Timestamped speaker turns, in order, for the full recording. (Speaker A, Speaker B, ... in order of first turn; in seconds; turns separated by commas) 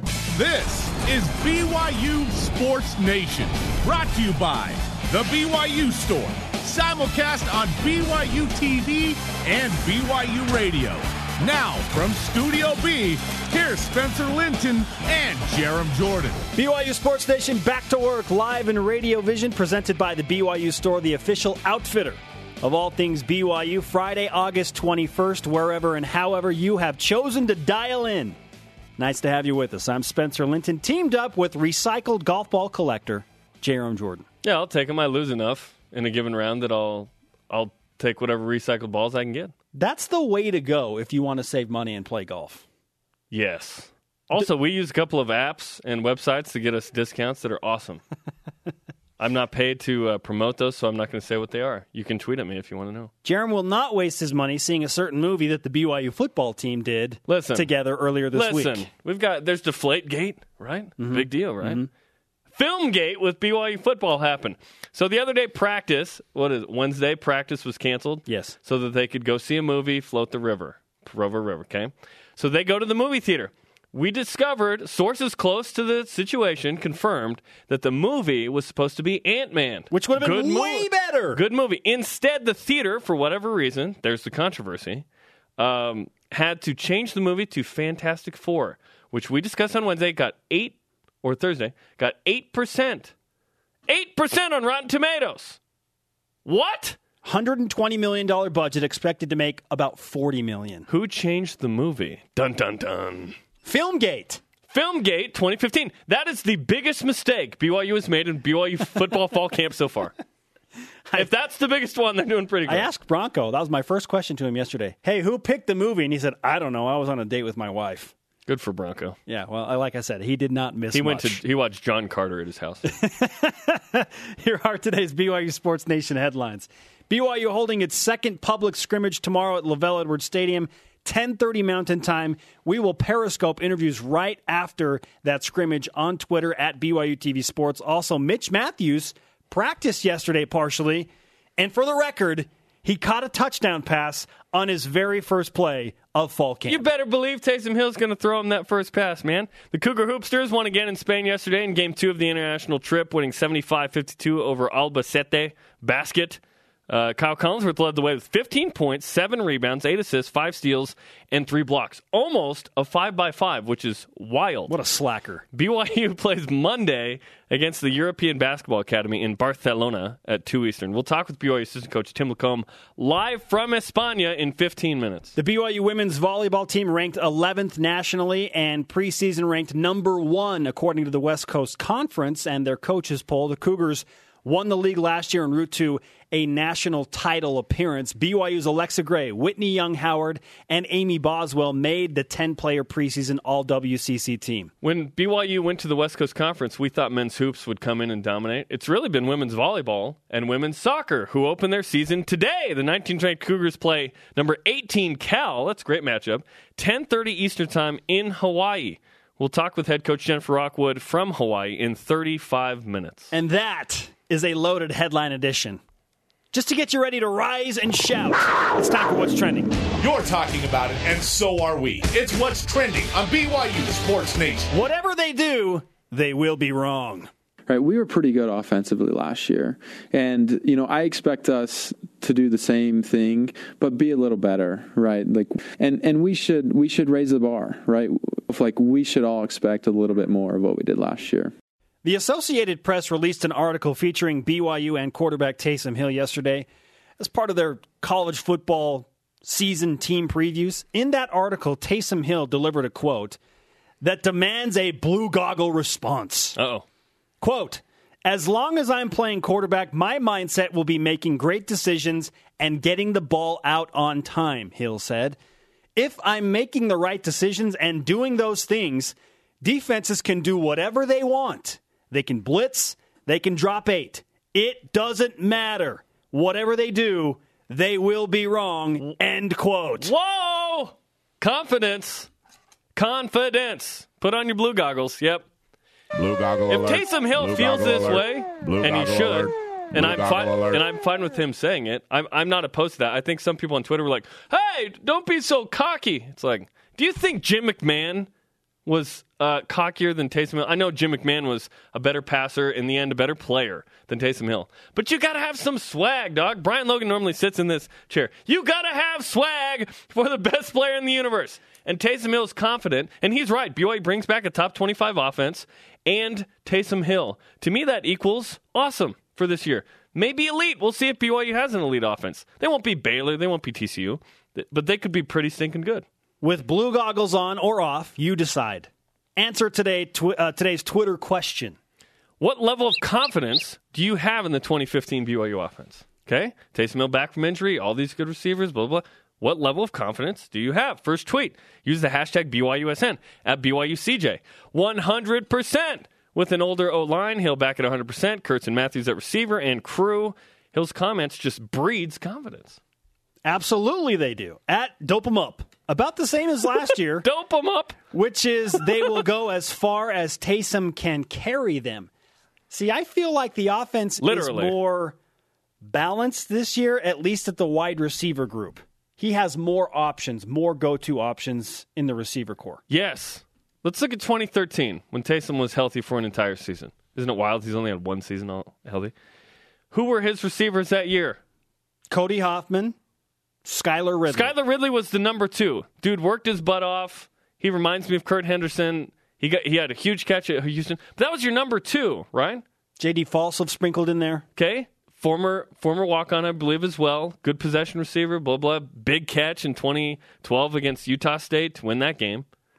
Speaker A: 0.3-16.4, Speaker B: 16.5-28.4, Speaker B: 29.0-34.2, Speaker C: 34.4-39.5, Speaker B: 39.7-42.6, Speaker C: 43.3-48.0, Speaker C: 49.2-53.1, Speaker B: 53.2-58.9, Speaker C: 57.3-57.7, Speaker C: 58.3-61.8, Speaker B: 61.0-61.9, Speaker C: 62.5-85.0, Speaker B: 68.3-68.5, Speaker B: 79.9-81.4, Speaker C: 85.6-93.1, Speaker C: 93.9-95.6, Speaker C: 96.4-97.0, Speaker B: 97.2-100.9, Speaker C: 100.9-103.3, Speaker B: 103.6-104.4, Speaker C: 104.7-110.1, Speaker C: 111.1-112.9, Speaker B: 112.7-118.1, Speaker C: 118.5-119.2, Speaker B: 119.3-121.4, Speaker C: 120.9-122.8, Speaker B: 122.8-146.8, Speaker C: 146.7-164.7, Speaker B: 164.7-165.4, Speaker C: 165.5-175.3, Speaker B: 175.3-194.7, Speaker C: 194.8-213.3, Speaker B: 213.3-215.8, Speaker B: 216.5-219.8, Speaker A: 220.0-224.7, Speaker B: 224.7-227.3, Speaker D: 227.7-241.5, Speaker B: 242.0-246.7, Speaker B: 247.2-253.4, Speaker B: 254.0-256.6, Speaker C: 256.6-256.8, Speaker B: 257.4-265.4, Speaker B: 265.9-280.1, Speaker C: 280.0-282.3, Speaker C: 282.9-285.4, Speaker A: 286.1-290.8, Speaker C: 286.7-298.3, Speaker C: 298.9-326.0, Speaker B: 326.4-331.8, Speaker C: 332.4-352.8, Speaker B: 353.4-357.3, Speaker C: 357.2-358.0, Speaker B: 358.1-362.1, Speaker B: 362.7-365.2, Speaker C: 364.2-364.8, Speaker B: 365.8-372.8, Speaker C: 372.9-379.1, Speaker C: 379.9-381.4, Speaker B: 382.1-382.9, Speaker B: 383.6-384.5, Speaker C: 384.3-392.6, Speaker B: 393.0-394.4, Speaker C: 394.6-402.4